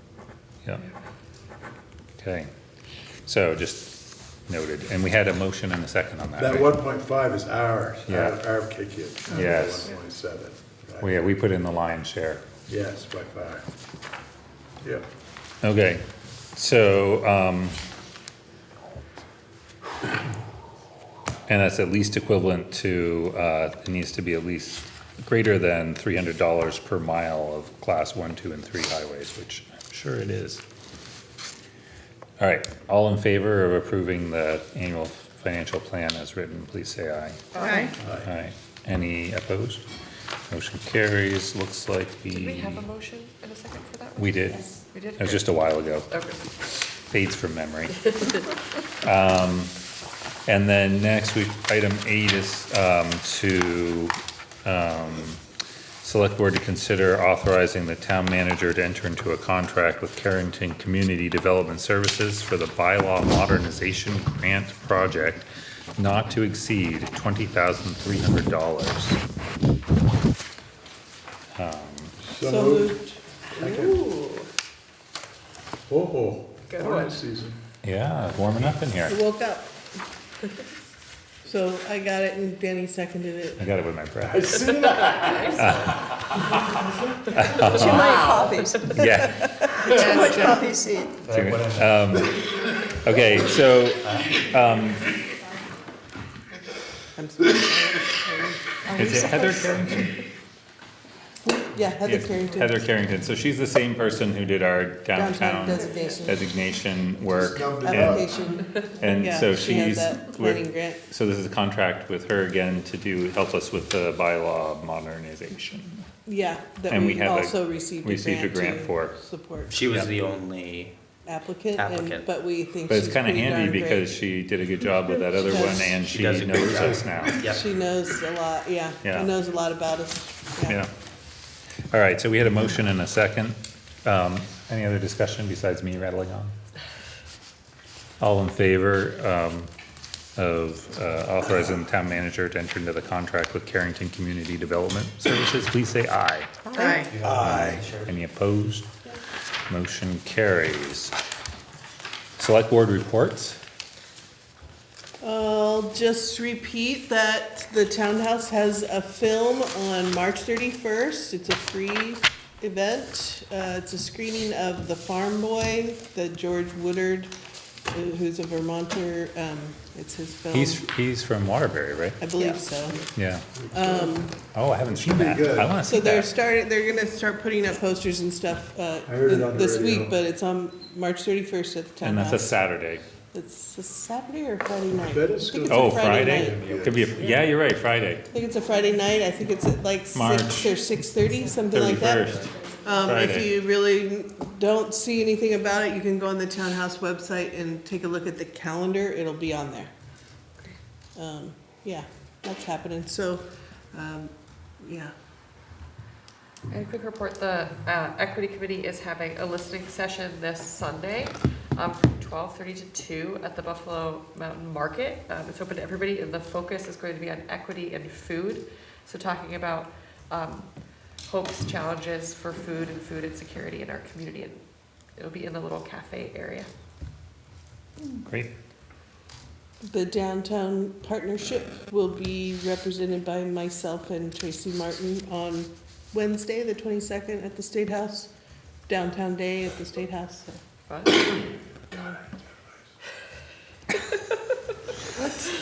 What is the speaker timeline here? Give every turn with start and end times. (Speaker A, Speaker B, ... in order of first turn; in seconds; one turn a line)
Speaker A: 2.2-2.5
Speaker A: 3.2-6.7
Speaker B: 6.4-11.1
Speaker A: 8.1-8.4
Speaker A: 9.3-9.9
Speaker A: 11.0-12.4
Speaker B: 12.7-13.6
Speaker A: 15.6-17.8
Speaker A: 21.5-30.6
Speaker A: 32.4-37.4
Speaker C: 37.5-37.9
Speaker D: 37.5-37.9
Speaker B: 38.0-38.3
Speaker A: 38.2-39.8
Speaker A: 40.5-42.9
Speaker C: 42.3-46.5
Speaker A: 44.2-46.1
Speaker A: 47.1-48.1
Speaker A: 49.0-49.7
Speaker A: 50.5-55.4
Speaker A: 56.0-65.5
Speaker A: 66.0-69.2
Speaker A: 71.5-72.1
Speaker B: 72.2-73.0
Speaker D: 72.4-73.7
Speaker B: 73.5-74.0
Speaker C: 73.6-74.5
Speaker B: 75.9-77.6
Speaker C: 76.7-77.2
Speaker A: 77.8-79.2
Speaker D: 79.1-79.7
Speaker D: 81.4-83.6
Speaker A: 83.6-84.6
Speaker B: 84.2-86.8
Speaker C: 85.0-85.7
Speaker A: 85.5-86.1
Speaker A: 87.3-88.2
Speaker D: 87.6-90.5
Speaker C: 87.7-88.6
Speaker E: 87.9-88.5
Speaker F: 87.9-88.6
Speaker A: 88.9-89.4
Speaker C: 89.8-90.7
Speaker F: 89.9-91.2
Speaker E: 91.2-92.2
Speaker A: 91.3-95.1
Speaker E: 94.0-94.4
Speaker D: 97.2-99.2
Speaker C: 98.9-100.1
Speaker A: 98.9-100.1
Speaker F: 99.2-99.7
Speaker D: 101.5-102.8
Speaker A: 102.0-108.2
Speaker D: 105.1-106.5
Speaker B: 107.2-108.4
Speaker D: 107.8-111.0
Speaker A: 109.0-116.0
Speaker D: 116.2-119.8
Speaker A: 116.9-119.1
Speaker E: 119.7-120.9
Speaker D: 121.2-124.1
Speaker E: 121.7-122.3
Speaker A: 122.9-127.4
Speaker E: 125.4-127.6
Speaker D: 125.5-125.9
Speaker B: 126.8-127.3
Speaker D: 127.4-130.8
Speaker A: 129.0-129.3
Speaker A: 130.7-130.9
Speaker A: 131.9-136.5
Speaker A: 138.2-139.7
Speaker A: 140.3-146.5
Speaker F: 146.7-147.1
Speaker D: 146.7-147.1
Speaker E: 147.0-148.2
Speaker B: 147.2-147.8
Speaker A: 147.4-148.9
Speaker A: 149.7-151.1
Speaker A: 152.4-153.6
Speaker D: 155.2-167.3
Speaker D: 167.9-170.8
Speaker A: 170.5-172.2
Speaker D: 172.2-173.0
Speaker A: 173.1-173.5
Speaker B: 173.5-174.2
Speaker D: 173.7-174.3
Speaker A: 174.5-176.3
Speaker B: 174.8-175.8
Speaker D: 175.9-182.6
Speaker B: 179.1-180.1
Speaker A: 182.0-183.0
Speaker D: 183.3-186.6
Speaker B: 185.0-187.2
Speaker A: 185.7-188.2
Speaker D: 188.3-199.9
Speaker A: 190.1-190.8
Speaker A: 191.7-192.4
Speaker A: 193.0-193.5
Speaker D: 201.2-205.1
Speaker C: 206.7-220.7
Speaker C: 221.2-224.6
Speaker C: 225.2-226.7
Speaker A: 228.2-228.5
Speaker D: 229.8-238.3
Speaker D: 238.9-240.6
Speaker C: 240.9-241.4
Speaker B: 241.9-242.4
Speaker C: 245.2-245.5